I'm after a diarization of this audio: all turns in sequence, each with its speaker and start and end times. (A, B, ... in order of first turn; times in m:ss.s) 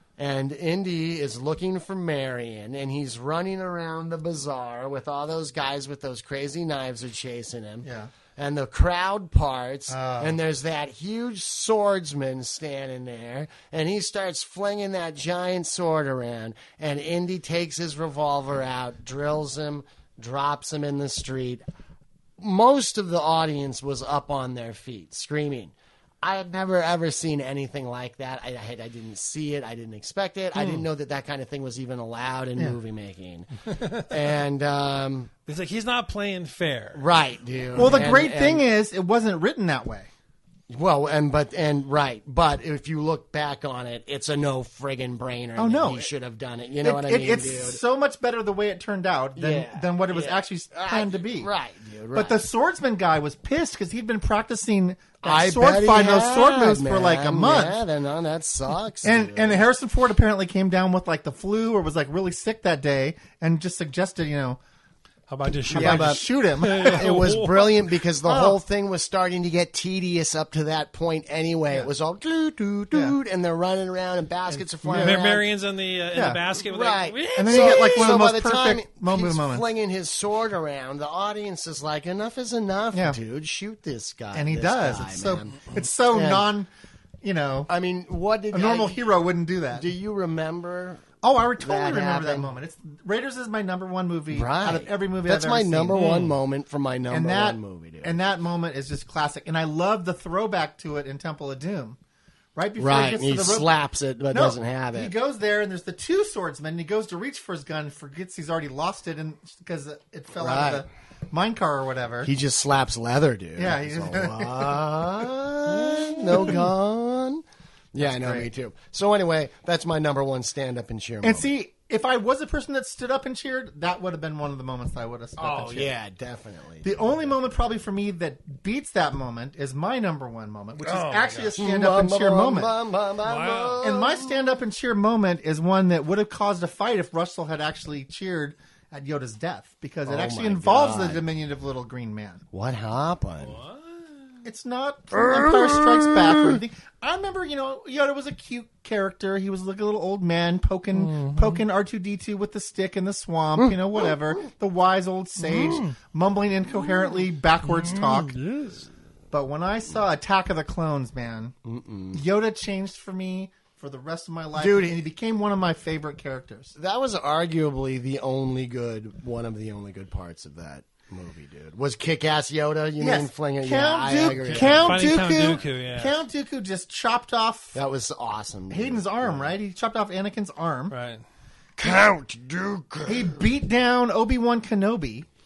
0:00.2-0:21.6 A
0:07.8-0:08.1 B
0:09.9-0:10.4 B
0:22.4-0:35.3 A
0:35.5-0:37.0 C
0:36.9-0:38.6 A
0:37.7-0:40.1 B
0:40.7-0:47.8 A
0:45.6-0:46.1 B
0:46.8-0:51.5 B
0:49.4-0:52.4 A
0:52.1-0:57.8 B
0:55.2-0:59.6 A
0:59.0-1:04.6 B
1:05.3-1:07.8 C
1:05.7-1:06.1 A
1:05.7-1:07.0 B
1:06.7-1:15.5 A
1:08.2-1:08.6 B
1:12.9-1:13.2 B
1:14.5-1:15.2 B
1:15.0-1:18.1 C
1:16.1-1:16.4 B
1:16.5-1:26.5 A
1:17.4-1:19.6 B
1:22.9-1:23.2 B
1:24.3-1:26.7 B
1:27.2-1:27.7 B
1:27.7-1:29.0 A
1:28.5-1:29.9 B
1:29.7-1:31.0 A
1:31.2-1:36.2 B
1:31.6-1:32.5 A
1:34.3-1:38.1 A
1:35.9-1:36.3 C
1:37.1-1:42.0 B
1:42.6-1:43.7 B
1:42.8-1:45.1 A
1:44.3-1:52.3 B
1:50.4-1:50.9 A
1:52.2-2:01.5 A
1:53.6-1:54.9 B
1:55.8-1:56.6 B
1:58.0-1:58.5 B
2:01.2-2:05.9 B
2:05.4-2:07.0 A
2:06.8-2:12.7 B
2:10.8-2:11.6 C
2:11.6-2:14.4 A
2:13.2-2:13.8 C
2:13.8-2:22.4 B
2:20.0-2:21.2 A
2:22.5-2:23.6 A
2:23.4-2:24.4 C
2:24.4-2:38.4 B
2:25.1-2:26.6 A
2:30.9-2:31.6 C
2:35.5-2:35.9 C
2:38.0-2:38.8 A
2:39.3-2:41.5 B
2:41.6-2:42.2 A
2:42.1-2:46.7 B
2:44.5-2:45.0 A
2:46.8-2:55.3 A
2:53.0-2:57.7 B
2:54.6-2:56.2 C
2:57.7-2:59.6 A
2:58.7-3:00.9 B
3:00.9-3:01.2 C
3:01.8-3:03.5 A
3:03.0-3:05.3 B